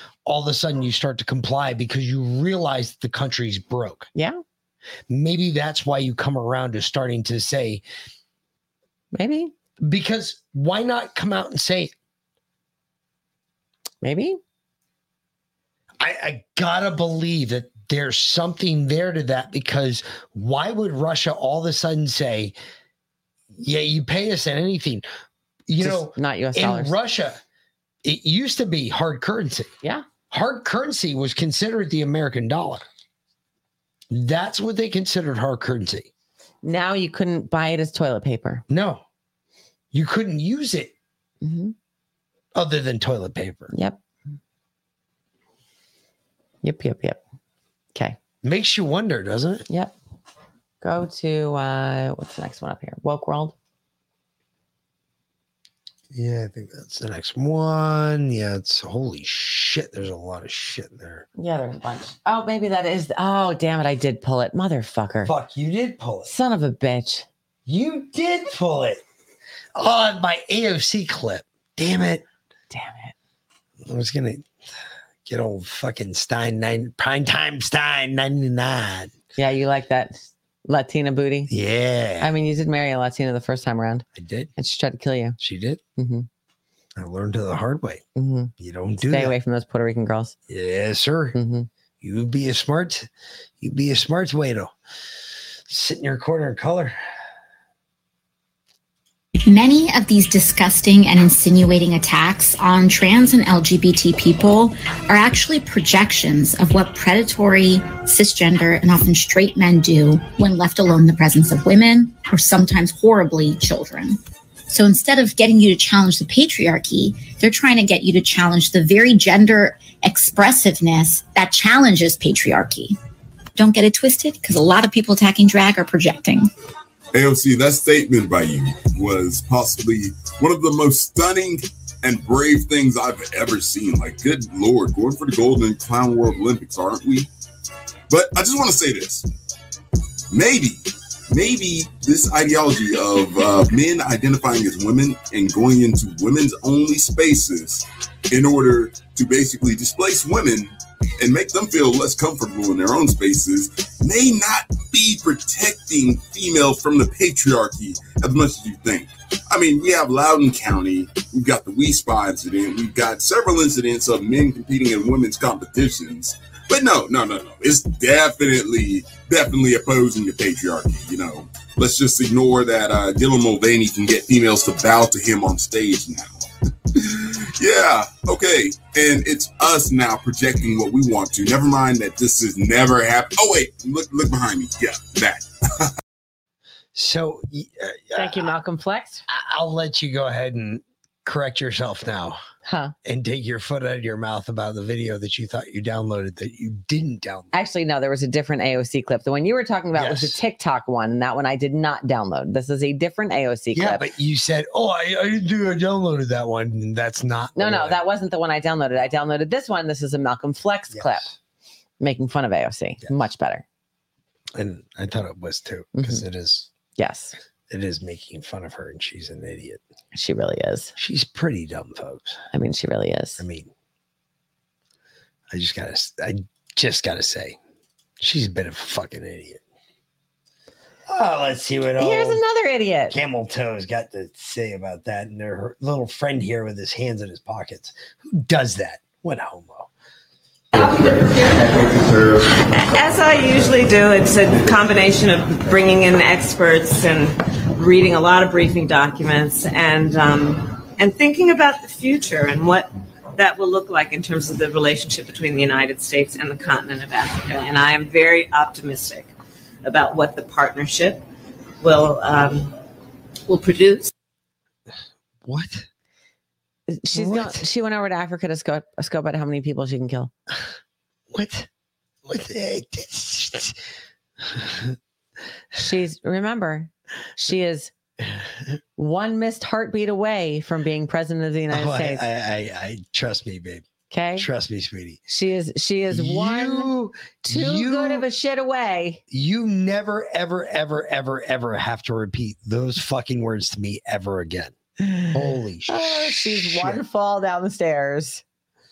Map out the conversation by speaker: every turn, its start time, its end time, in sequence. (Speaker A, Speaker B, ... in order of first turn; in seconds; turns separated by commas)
Speaker A: 0.2-4.1, Speaker A: 5.1-7.8, Speaker B: 9.1-9.5, Speaker A: 9.8-11.9, Speaker B: 14.0-14.4, Speaker A: 16.0-22.6, Speaker A: 23.5-25.0, Speaker A: 25.7-27.4, Speaker B: 25.8-26.9, Speaker A: 28.0-29.7, Speaker A: 30.3-32.8, Speaker A: 34.1-36.1, Speaker B: 36.6-38.6, Speaker A: 38.7-39.0, Speaker A: 39.9-40.9, Speaker B: 41.4-41.7, Speaker A: 42.5-43.7, Speaker B: 43.7-44.0, Speaker B: 46.6-47.2, Speaker A: 48.4-49.7, Speaker B: 50.8-53.5, Speaker A: 56.1-61.3, Speaker B: 61.4-65.3, Speaker A: 65.2-66.3, Speaker B: 66.3-67.3, Speaker A: 67.7-69.0, Speaker A: 69.8-72.2, Speaker B: 72.7-73.1, Speaker A: 73.8-74.5, Speaker A: 75.3-79.1, Speaker B: 79.4-81.5, Speaker A: 81.5-82.3, Speaker B: 82.2-84.0, Speaker A: 84.2-84.5, Speaker B: 84.6-85.4, Speaker A: 85.4-85.8, Speaker B: 86.0-86.3, Speaker A: 87.0-88.0, Speaker B: 88.2-90.3, Speaker A: 88.6-89.3, Speaker A: 90.5-91.4, Speaker B: 91.3-91.7, Speaker A: 92.0-93.1, Speaker A: 93.6-94.7, Speaker A: 95.7-97.0, Speaker C: 99.4-114.2, Speaker C: 114.7-123.0, Speaker C: 123.6-126.5, Speaker D: 127.1-137.3, Speaker D: 138.1-139.2, Speaker D: 140.3-140.8, Speaker D: 141.3-176.5, Speaker D: 177.1-185.4, Speaker A: 186.9-188.5, Speaker B: 188.2-189.2, Speaker A: 189.3-192.4, Speaker B: 192.7-192.9, Speaker A: 193.1-197.5, Speaker B: 197.5-204.0, Speaker A: 199.9-200.4, Speaker A: 203.7-208.0, Speaker B: 207.6-211.2, Speaker A: 210.9-211.4, Speaker B: 212.0-213.6, Speaker A: 214.6-216.7, Speaker B: 215.9-216.2, Speaker B: 217.0-217.3, Speaker A: 217.7-219.8, Speaker B: 220.1-220.9, Speaker A: 221.0-222.4, Speaker B: 222.5-223.4, Speaker A: 223.4-223.7, Speaker A: 225.5-227.6, Speaker A: 228.2-229.6, Speaker A: 231.1-232.4, Speaker B: 232.0-233.2, Speaker A: 233.1-239.9, Speaker E: 240.7-259.3, Speaker E: 259.8-261.2, Speaker E: 261.8-262.7, Speaker E: 263.5-264.1, Speaker A: 265.4-265.9, Speaker B: 266.9-270.3, Speaker A: 267.1-267.6, Speaker A: 271.3-271.7, Speaker A: 272.2-273.8, Speaker A: 274.4-274.9, Speaker B: 275.8-277.9, Speaker A: 278.2-278.7, Speaker B: 279.0-282.2, Speaker A: 281.7-283.9, Speaker B: 284.1-284.5, Speaker A: 284.4-285.2, Speaker B: 285.3-286.9, Speaker A: 286.1-288.2, Speaker B: 287.5-289.2, Speaker A: 289.3-294.8, Speaker B: 295.0-295.4, Speaker A: 295.3-297.0, Speaker B: 295.9-298.4